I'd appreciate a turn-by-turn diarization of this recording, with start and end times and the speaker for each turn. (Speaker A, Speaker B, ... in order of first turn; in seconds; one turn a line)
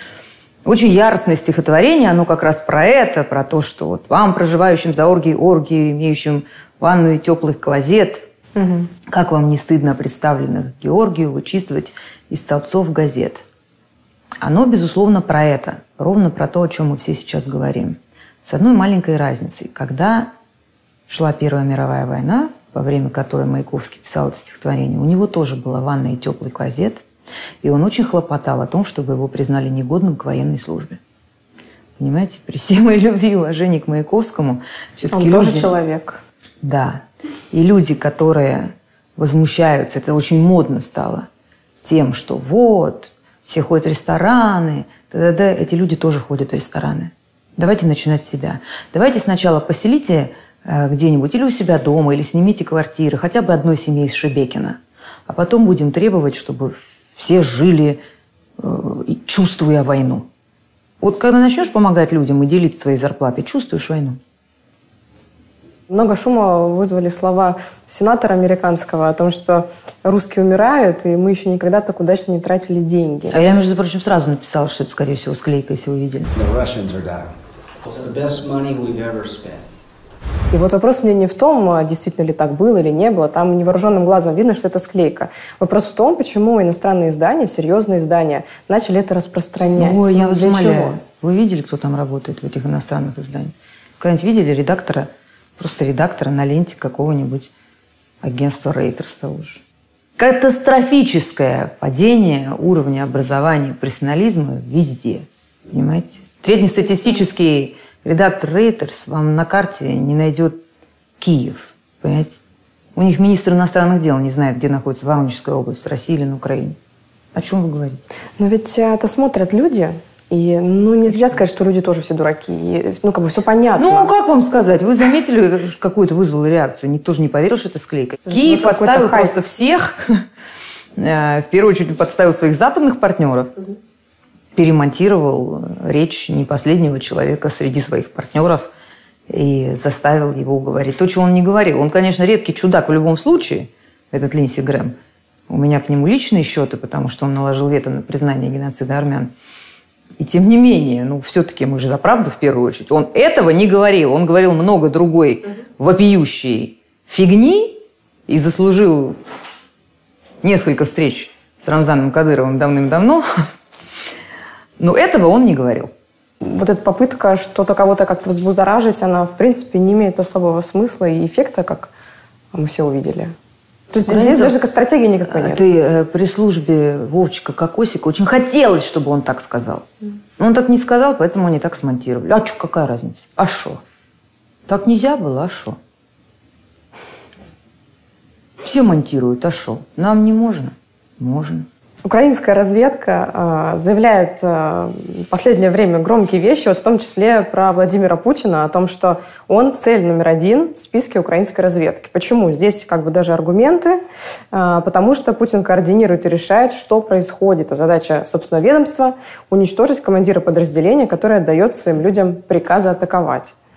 Speaker A: 0.7-8.3
Speaker B: 8.6-8.9
Speaker A: 9.1-13.4
Speaker A: 14.4-20.3
Speaker A: 21.1-27.1
Speaker A: 27.6-31.0
Speaker A: 32.0-35.7
Speaker B: 35.1-36.2
Speaker A: 36.6-41.3
Speaker A: 41.8-58.0
Speaker A: 58.6-60.3
Speaker A: 61.0-64.2
Speaker B: 65.9-73.4
Speaker A: 73.3-76.3
Speaker C: 76.3-77.3
Speaker C: 77.8-79.7
Speaker B: 80.5-91.0
Speaker A: 89.8-97.5
Speaker A: 98.2-99.6
Speaker A: 100.2-110.6
Speaker A: 111.2-112.4
Speaker A: 113.0-116.8
Speaker A: 117.3-118.1
Speaker B: 118.4-124.1
Speaker A: 123.8-130.3
Speaker B: 128.3-129.3
Speaker A: 131.0-133.6
Speaker A: 134.6-138.7
Speaker A: 139.3-145.0
Speaker A: 145.5-149.3
Speaker A: 150.2-159.2
Speaker A: 160.4-163.3
Speaker A: 164.8-165.9
Speaker B: 166.4-171.9
Speaker B: 172.5-173.3
Speaker B: 173.9-175.6
Speaker A: 174.0-174.6
Speaker A: 175.3-179.9
Speaker A: 180.4-183.8
Speaker A: 184.7-185.8
Speaker A: 188.6-191.7
Speaker B: 192.1-204.0
Speaker B: 204.5-213.5